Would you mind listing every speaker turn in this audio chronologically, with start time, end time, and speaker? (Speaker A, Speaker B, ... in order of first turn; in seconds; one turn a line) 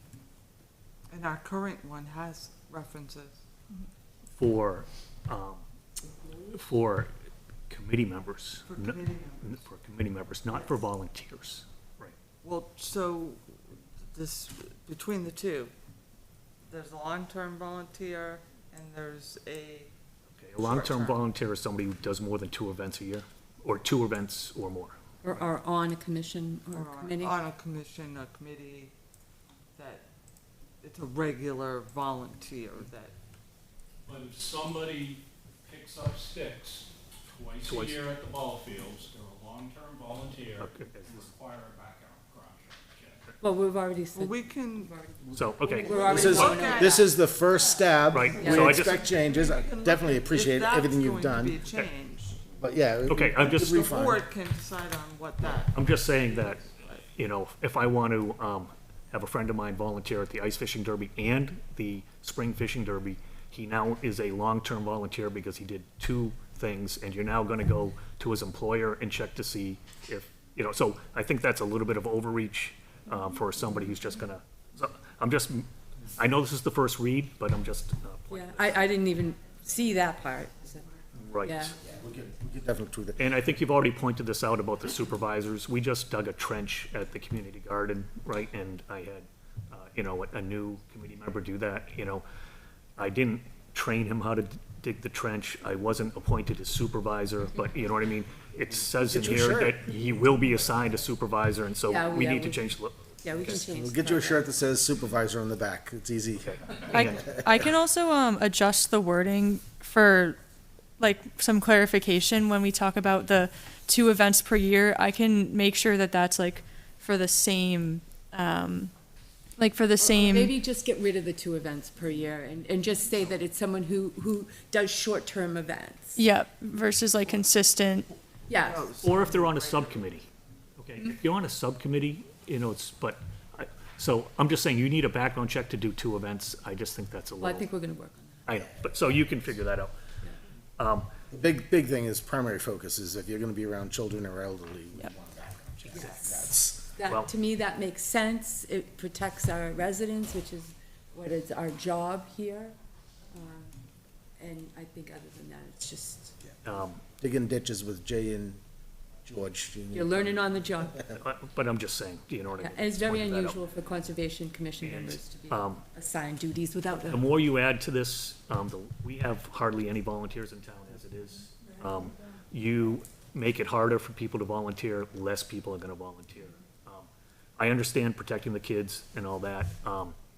Speaker A: 1.1-3.4
Speaker B: 4.4-5.6
Speaker B: 6.5-7.1
Speaker B: 7.7-12.1
Speaker A: 8.7-9.6
Speaker A: 12.4-15.7
Speaker A: 16.7-19.9
Speaker B: 20.3-25.0
Speaker A: 20.6-21.2
Speaker C: 25.2-27.4
Speaker A: 26.7-28.9
Speaker A: 29.8-30.1
Speaker A: 30.8-33.1
Speaker D: 34.0-43.3
Speaker B: 37.6-38.0
Speaker B: 40.6-41.3
Speaker C: 43.4-47.1
Speaker A: 44.1-45.1
Speaker B: 45.3-46.0
Speaker A: 45.6-47.9
Speaker E: 46.0-51.7
Speaker B: 48.1-49.0
Speaker C: 48.4-48.7
Speaker A: 48.4-52.4
Speaker E: 52.6-54.2
Speaker B: 53.1-53.8
Speaker A: 53.4-57.0
Speaker B: 55.7-78.9
Speaker C: 78.3-81.8
Speaker B: 81.1-81.7
Speaker E: 81.8-83.3
Speaker B: 83.2-92.2
Speaker B: 93.0-103.6
Speaker E: 99.0-99.8
Speaker C: 101.8-102.7
Speaker C: 103.2-104.5
Speaker E: 103.4-107.2
Speaker F: 106.9-110.4
Speaker F: 111.0-118.9
Speaker F: 119.6-120.5
Speaker C: 120.0-126.2
Speaker F: 126.2-128.1
Speaker C: 128.5-128.9
Speaker A: 128.6-130.1
Speaker B: 129.0-137.7
Speaker C: 137.4-138.5
Speaker B: 138.4-139.9
Speaker B: 140.8-141.1
Speaker E: 141.3-146.9
Speaker C: 145.9-152.8
Speaker B: 145.9-146.3
Speaker C: 153.3-153.8
Speaker C: 154.4-156.4
Speaker B: 156.6-157.0
Speaker E: 157.0-158.6
Speaker E: 159.2-161.2
Speaker C: 159.9-161.0
Speaker B: 161.1-163.6
Speaker C: 162.6-167.3
Speaker B: 164.8-165.8
Speaker B: 167.1-180.1